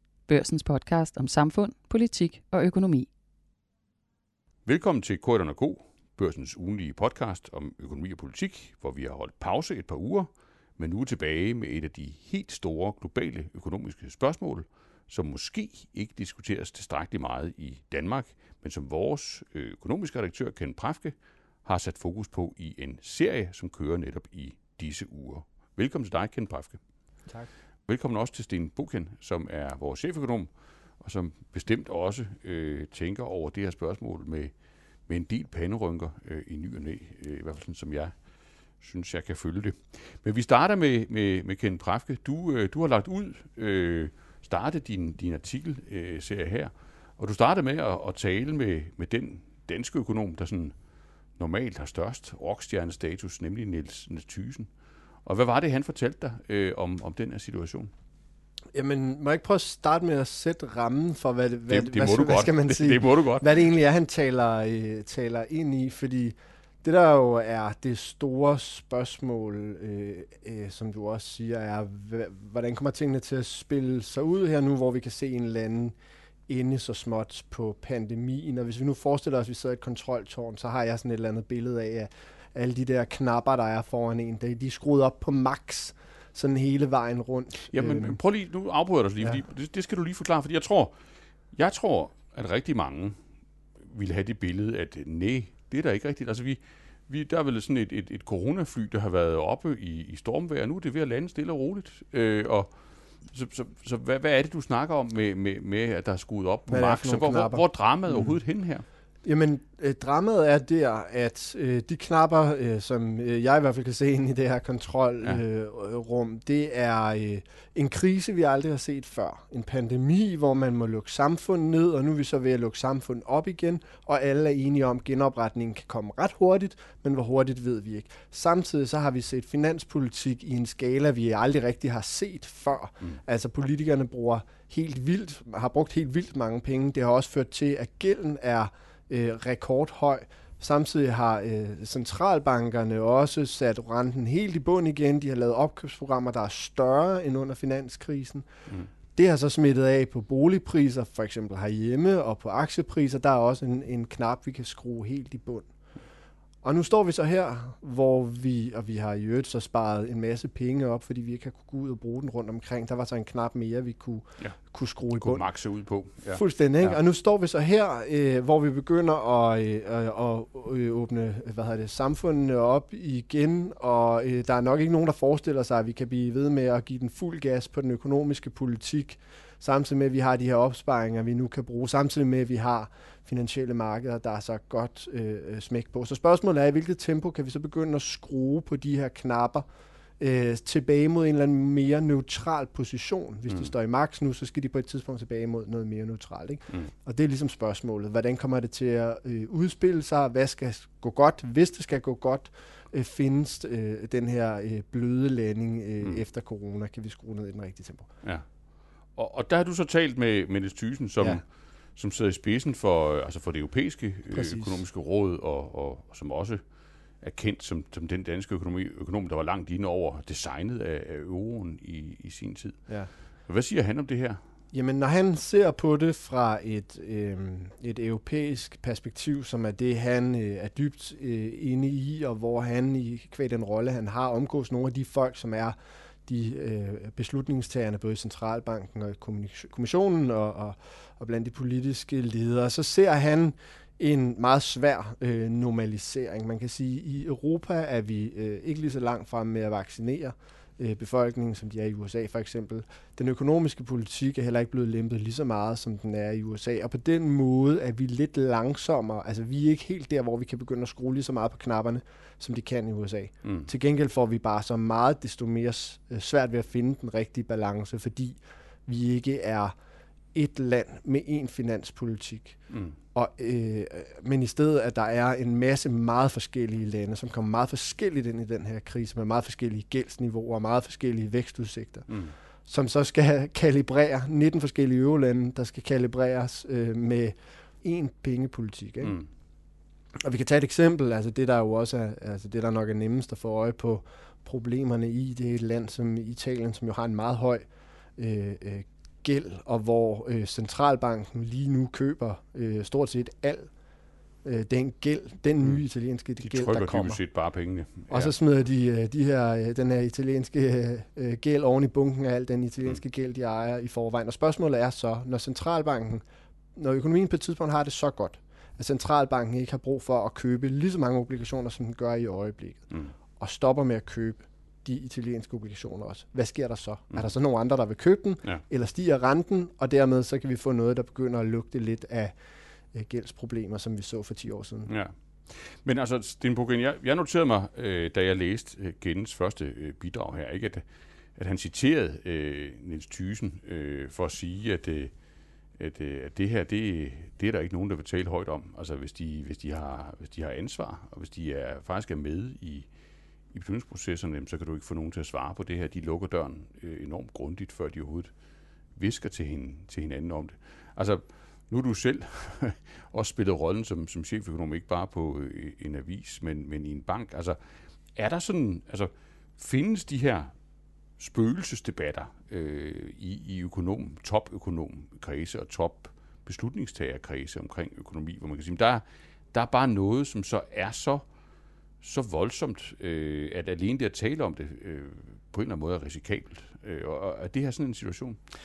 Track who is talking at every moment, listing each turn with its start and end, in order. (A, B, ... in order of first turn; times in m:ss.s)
0:00.3-0:03.1 A
0:04.6-0:21.1 B
0:21.6-0:26.8 B
0:27.9-0:30.5 B
0:31.0-0:34.5 B
0:35.1-0:38.1 B
0:38.8-0:50.7 B
0:51.4-0:54.7 B
0:55.2-0:57.9 B
0:58.7-1:16.0 C
1:01.7-1:03.6 B
1:16.5-1:28.2 C
1:27.7-1:30.9 B
1:31.5-1:33.2 B
1:33.9-1:42.7 B
1:43.3-1:48.8 B
1:46.7-1:48.3 C
1:49.2-2:28.4 C
2:29.1-2:35.7 C
2:36.6-2:45.4 C
2:45.2-2:47.0 B
2:46.3-3:09.6 C
3:10.2-3:28.1 C
3:29.1-3:36.6 B
3:34.3-3:34.8 C
3:37.2-3:42.9 B
3:43.5-3:44.4 B
3:44.7-4:29.7 C
4:30.3-4:32.6 C
4:33.1-4:42.1 C
4:42.6-4:49.2 C
4:50.2-5:03.7 C
5:04.4-5:07.2 C
5:06.4-5:08.3 B
5:08.1-5:16.2 C
5:16.7-5:32.3 C
5:32.9-5:34.9 C
5:34.9-5:40.8 B
5:41.4-5:45.1 B
5:45.8-5:52.9 B
5:53.5-5:58.3 B
5:59.0-6:07.6 B
6:08.1-6:10.5 B
6:11.2-6:21.2 B
6:22.0-6:28.4 B